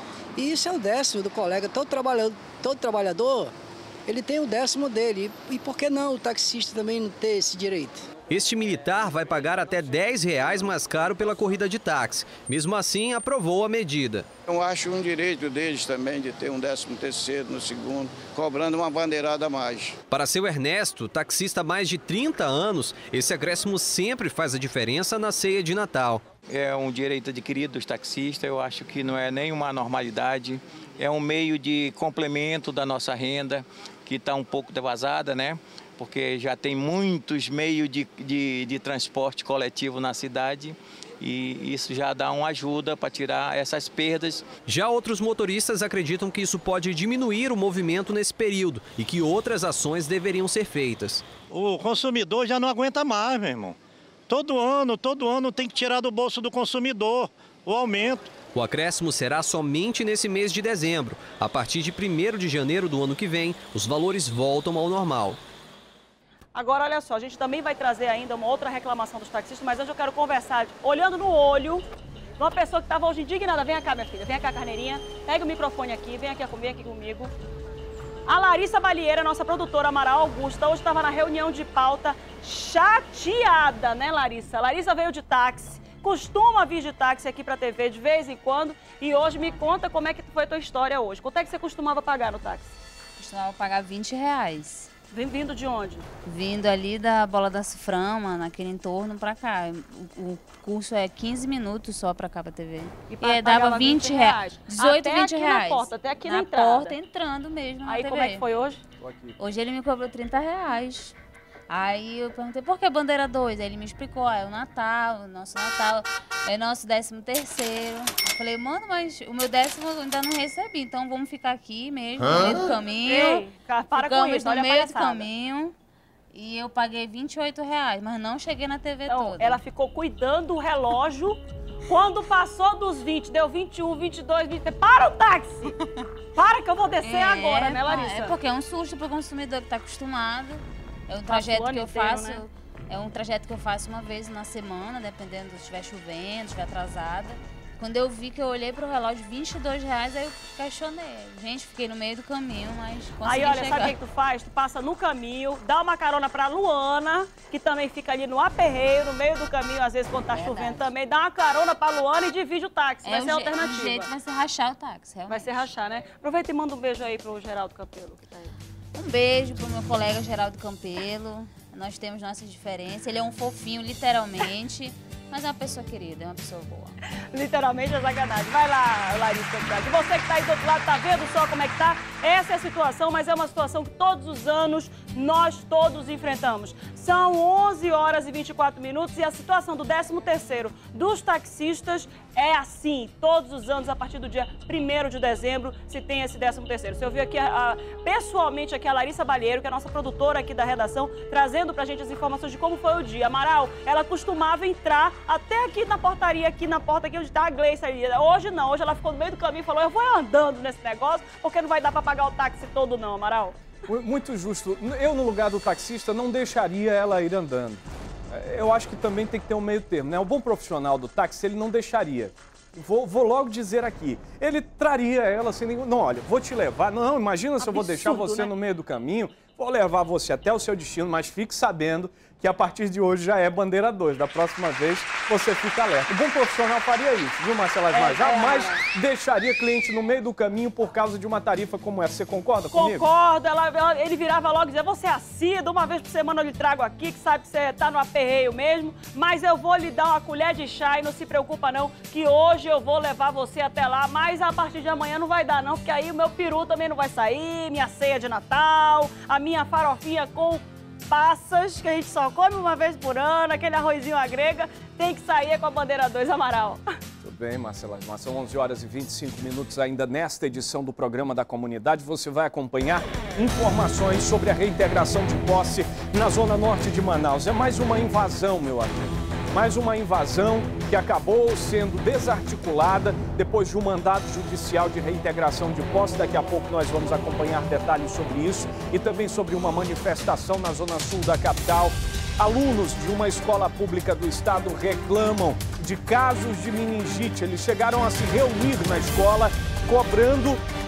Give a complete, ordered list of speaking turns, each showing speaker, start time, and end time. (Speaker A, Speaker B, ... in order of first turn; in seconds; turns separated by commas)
Speaker A: 0.4-3.5, Speaker A: 4.1-8.1, Speaker B: 8.3-14.3, Speaker C: 14.5-20.0, Speaker B: 20.1-26.2, Speaker D: 26.5-44.6, Speaker B: 44.6-51.3, Speaker E: 51.5-53.8, Speaker E: 54.3-58.3, Speaker B: 58.5-65.4, Speaker F: 66.5-71.8, Speaker F: 72.4-77.3, Speaker F: 78.3-92.8, Speaker G: 89.2-89.6, Speaker G: 93.2-94.9, Speaker F: 95.1-96.1, Speaker G: 96.3-108.4, Speaker F: 103.1-107.0, Speaker F: 107.9-108.8, Speaker H: 109.0-109.4, Speaker G: 109.4-111.2, Speaker G: 111.7-125.7, Speaker F: 123.1-125.3, Speaker G: 126.3-129.6, Speaker F: 129.1-135.7, Speaker F: 136.3-138.3, Speaker G: 137.0-153.9, Speaker F: 141.3-142.4, Speaker F: 153.2-164.1, Speaker G: 160.3-160.8, Speaker G: 163.1-165.5, Speaker F: 165.3-168.5, Speaker G: 168.9-177.0, Speaker F: 177.3-213.6, Speaker H: 213.9-243.1, Speaker F: 227.6-228.5, Speaker F: 237.9-238.8, Speaker F: 242.7-266.9, Speaker H: 267.2-300.6